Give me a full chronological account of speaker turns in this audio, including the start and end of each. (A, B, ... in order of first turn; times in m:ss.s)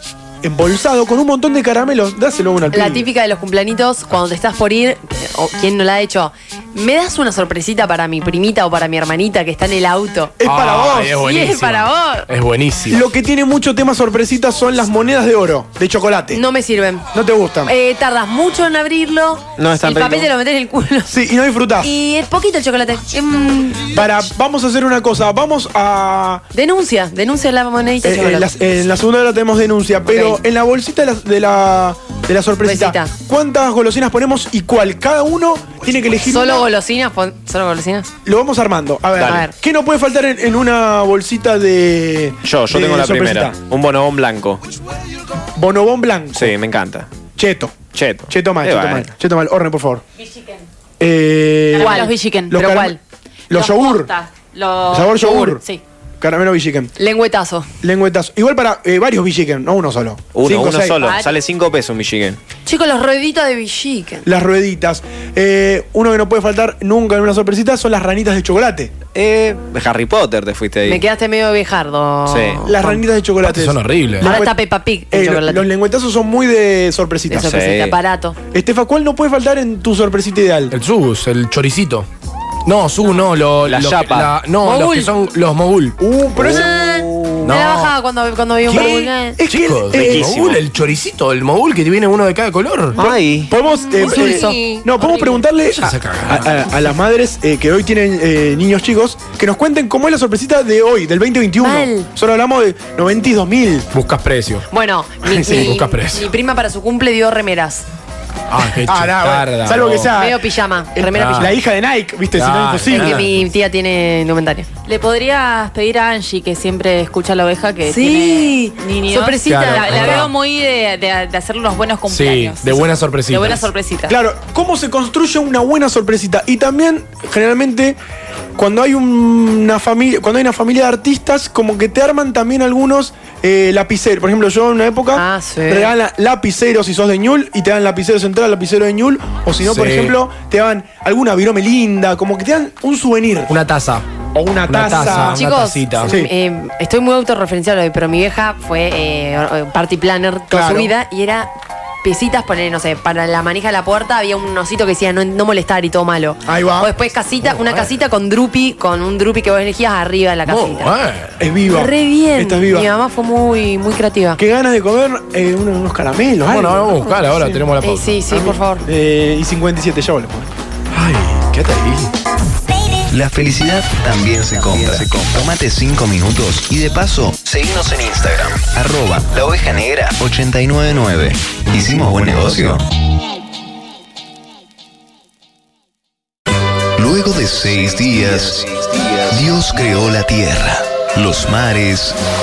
0:00.4-0:03.1 A
0:02.7-0:10.4 B
0:10.4-0:11.3 A
0:10.4-0:13.0 C
0:11.2-0:12.3 B
0:12.9-0:16.4 A
0:16.3-0:17.1 B
0:17.1-0:17.7 A
0:17.6-0:21.1 B
0:19.6-0:20.3 D
0:21.1-0:21.9 A
0:21.8-0:24.1 B
0:23.9-0:26.4 A
0:26.5-0:28.5 B
0:28.0-0:36.7 A
0:30.1-0:30.4 B
0:32.6-0:33.1 B
0:36.2-0:38.1 B
0:38.2-0:43.6 A
0:39.2-0:39.4 D
0:39.2-0:39.5 B
0:42.4-0:44.6 D
0:45.6-0:46.5 A
0:46.3-0:47.1 D
0:47.4-0:50.0 A
0:47.9-0:49.1 D
0:50.3-0:50.6 E
0:51.0-0:53.0 A
0:51.7-0:52.9 E
0:51.7-0:52.9 B
0:53.5-0:54.1 A
0:53.5-0:55.8 E
0:54.9-0:55.6 A
0:55.1-0:55.8 B
0:56.2-0:56.9 A
0:57.0-0:57.7 B
0:57.8-1:01.0 A
1:00.3-1:02.4 D
1:01.0-1:01.3 E
1:02.6-1:04.2 B
1:04.2-1:08.9 A
1:09.1-1:11.0 D
1:10.8-1:13.0 B
1:12.3-1:12.7 D
1:12.6-1:14.6 A
1:13.4-1:14.4 C
1:14.2-1:15.7 B
1:15.1-1:17.6 A
1:17.3-1:18.4 B
1:17.4-1:18.0 D
1:18.5-1:20.7 A
1:20.7-1:22.1 C
1:22.6-1:26.0 C
1:23.6-1:24.3 D
1:24.6-1:25.1 B
1:26.0-1:26.8 A
1:26.4-1:29.4 B
1:27.4-1:28.0 C
1:28.6-1:33.0 C
1:28.7-1:30.4 A
1:29.9-1:30.6 D
1:33.0-1:33.5 D
1:33.0-1:43.9 A
1:33.6-1:35.4 B
1:35.7-1:36.6 C
1:41.6-1:42.1 B
1:43.9-1:44.6 C
1:44.7-1:47.8 B
1:45.3-1:46.3 C
1:45.3-1:45.8 A
1:48.5-1:50.2 C
1:48.8-1:53.3 A
1:50.1-1:51.5 B
1:51.0-1:51.5 C
1:52.4-1:53.3 C
1:52.9-1:54.7 B
1:54.9-2:04.1 E
1:57.8-2:00.2 B
1:59.4-2:00.3 C
2:02.1-2:03.7 C
2:04.1-2:08.0 A
2:08.6-2:23.5 A
2:15.1-2:15.9 B
2:19.6-2:20.1 C
2:23.5-2:24.0 C
2:24.3-2:25.4 A
2:24.7-2:26.2 C
2:25.1-2:31.5 B
2:26.0-2:26.3 A
2:30.5-2:30.9 A
2:32.0-2:40.9 B
2:36.4-2:36.9 A
2:37.4-2:37.9 C
2:40.4-2:41.4 C
2:41.4-2:42.9 A
2:41.6-2:44.4 B
2:44.4-2:47.6 A
2:46.5-2:48.2 C
2:47.8-2:48.8 B
2:48.3-2:50.5 A
2:50.9-2:52.1 C
2:53.1-3:02.8 F
3:07.0-3:12.2 F
3:08.2-3:08.6 D